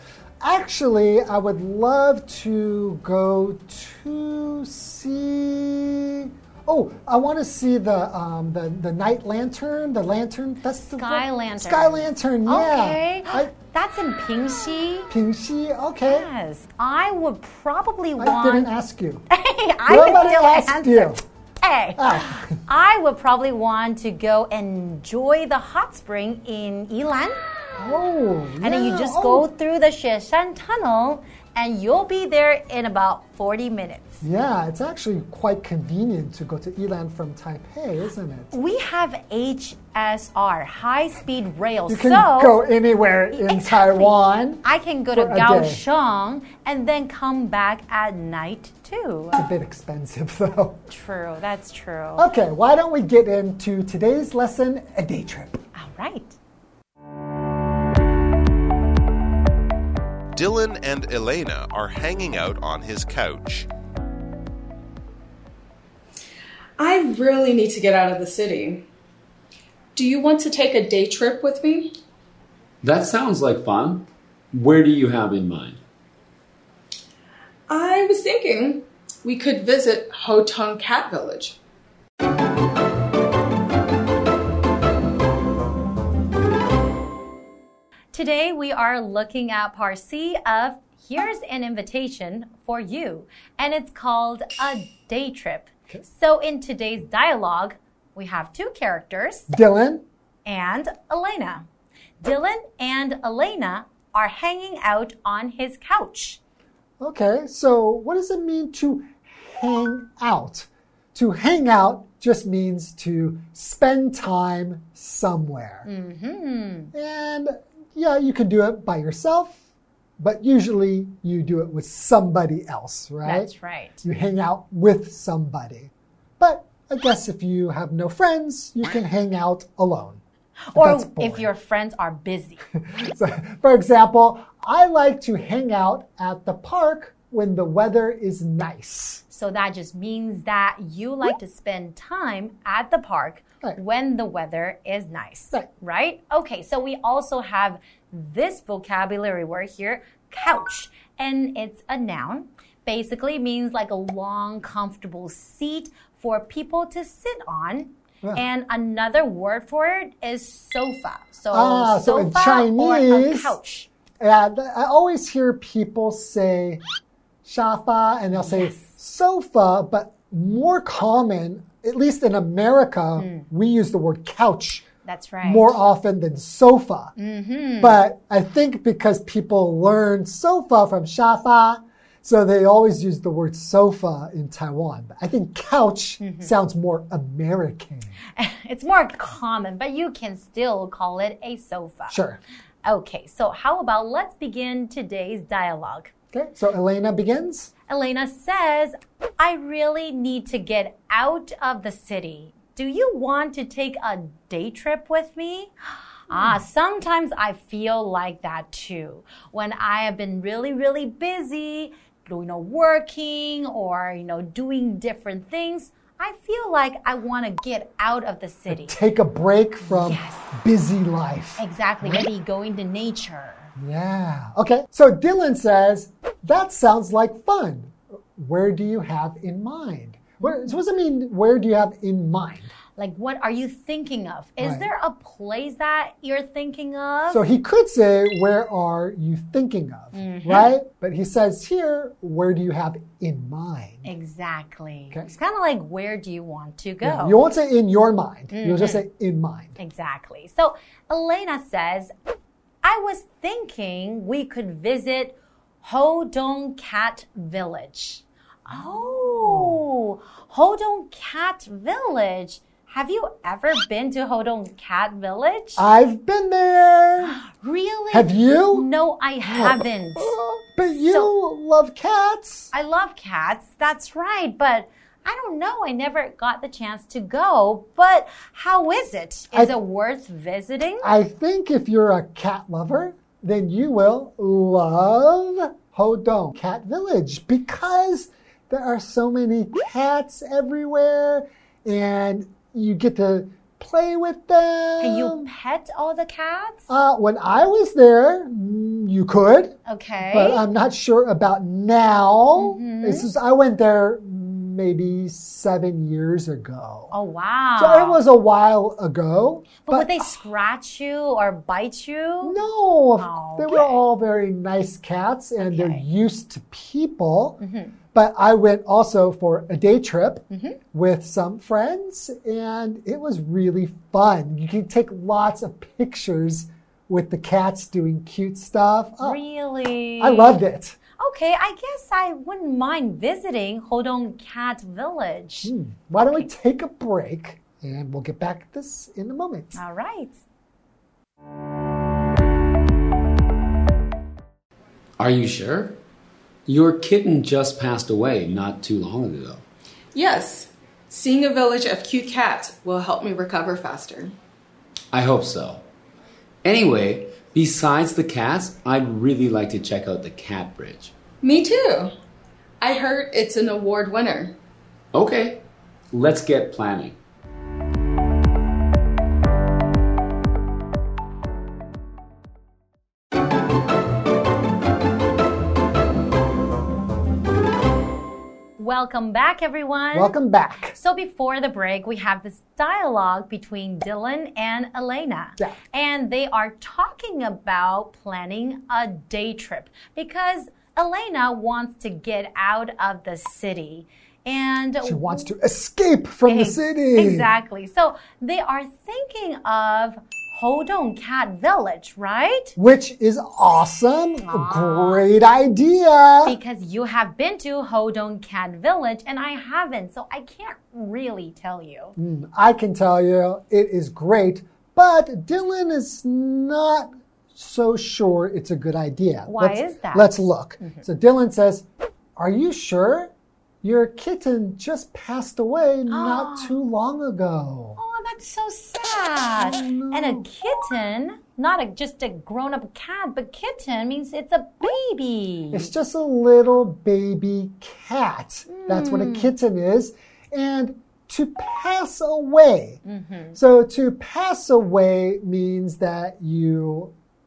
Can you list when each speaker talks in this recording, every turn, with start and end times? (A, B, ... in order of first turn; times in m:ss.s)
0:00.4-0:13.5 A
0:10.9-0:15.1 B
0:15.1-0:16.3 A
0:16.1-0:18.7 B
0:18.2-0:19.2 A
0:19.3-0:27.9 B
0:19.9-0:21.2 A
0:22.0-0:22.6 A
0:27.8-0:29.5 A
0:28.6-0:34.2 B
0:34.2-0:38.5 A
0:38.5-0:42.6 B
0:41.9-0:45.8 A
0:43.3-0:44.1 B
0:44.6-0:49.4 B
0:49.3-0:50.8 A
0:50.9-0:52.3 B
0:52.2-0:55.6 A
0:55.8-0:56.4 B
1:00.4-1:03.7 C
1:06.8-1:08.8 D
1:10.0-1:11.9 D
1:12.8-1:15.8 E
1:17.7-1:21.6 D
1:28.1-1:39.5 B
1:39.5-1:40.0 A
1:40.4-1:41.7 B
1:42.2-1:46.4 B
1:47.0-1:55.9 A
1:55.8-1:56.9 B
1:56.9-1:59.6 A
2:00.2-2:03.5 A
2:03.2-2:04.0 B
2:04.0-2:10.2 A
2:10.7-2:12.6 B
2:10.7-2:11.5 A
2:12.8-2:19.2 A
2:19.3-2:43.9 B
2:41.5-2:43.6 A
2:44.2-2:46.8 A
2:47.4-2:54.8 A
2:48.4-2:48.9 B
2:53.2-2:53.5 B
2:55.0-2:55.8 B
2:55.4-2:57.1 A
2:57.2-2:58.0 B
2:57.8-3:08.2 A
3:06.2-3:06.5 B
3:08.4-3:12.2 B
3:12.1-3:12.4 A
3:12.8-3:16.1 B
3:16.3-3:17.7 A
3:17.9-3:25.7 B
3:26.3-3:39.0 B
3:26.3-3:26.6 A
3:38.7-3:42.3 A
3:39.8-3:40.6 B
3:41.6-3:43.7 B
3:43.8-3:52.7 A
3:50.4-3:50.7 B
3:53.0-3:57.4 B
3:54.6-3:54.9 A
3:57.3-4:04.1 A
4:00.1-4:00.7 B
4:04.0-4:07.4 B
4:07.0-4:09.8 A
4:08.5-4:09.0 B
4:09.8-4:12.1 B
4:12.8-4:25.8 B
4:19.2-4:19.8 A
4:25.8-4:27.4 A
4:27.2-4:30.4 B
4:28.1-4:28.9 A
4:29.4-4:32.7 A
4:30.9-4:31.3 B
4:32.7-4:41.1 B
4:41.0-4:55.5 A
4:55.0-4:56.9 B
4:56.9-5:07.1 A
4:59.9-5:00.6 B
5:02.6-5:03.3 B
5:07.1-5:08.2 B
5:07.8-5:10.4 A
5:09.8-5:12.6 B
5:12.4-5:17.6 A
5:13.2-5:14.0 B
5:15.6-5:16.0 B
5:17.6-5:17.9 B
5:18.1-5:29.4 A
5:20.5-5:20.8 B
5:29.2-5:30.6 B
5:30.2-5:31.0 A
5:31.2-5:35.7 B
5:35.6-5:39.8 A
5:39.8-5:40.4 B
5:45.2-5:46.0 E
5:46.7-5:49.6 E
5:50.1-5:54.4 D
5:55.1-5:55.9 E
5:56.6-6:01.1 E
6:01.4-6:02.1 D
6:02.8-6:04.6 D
6:05.1-6:07.2 E
6:18.8-6:20.3 B
6:20.1-6:21.0 A
6:20.9-6:35.5 B
6:35.0-6:37.5 A
6:36.5-6:42.8 B
6:42.8-6:46.6 A
6:44.4-6:45.3 B
6:46.4-6:52.2 B
6:52.2-7:01.9 A
6:59.5-7:01.0 B
7:02.4-7:03.3 A
7:03.8-7:08.0 A
7:06.1-7:06.8 B
7:08.0-7:15.9 B
7:09.6-7:10.5 A
7:15.7-7:23.0 A
7:18.7-7:19.5 B
7:23.0-7:23.6 B
7:23.5-7:27.1 A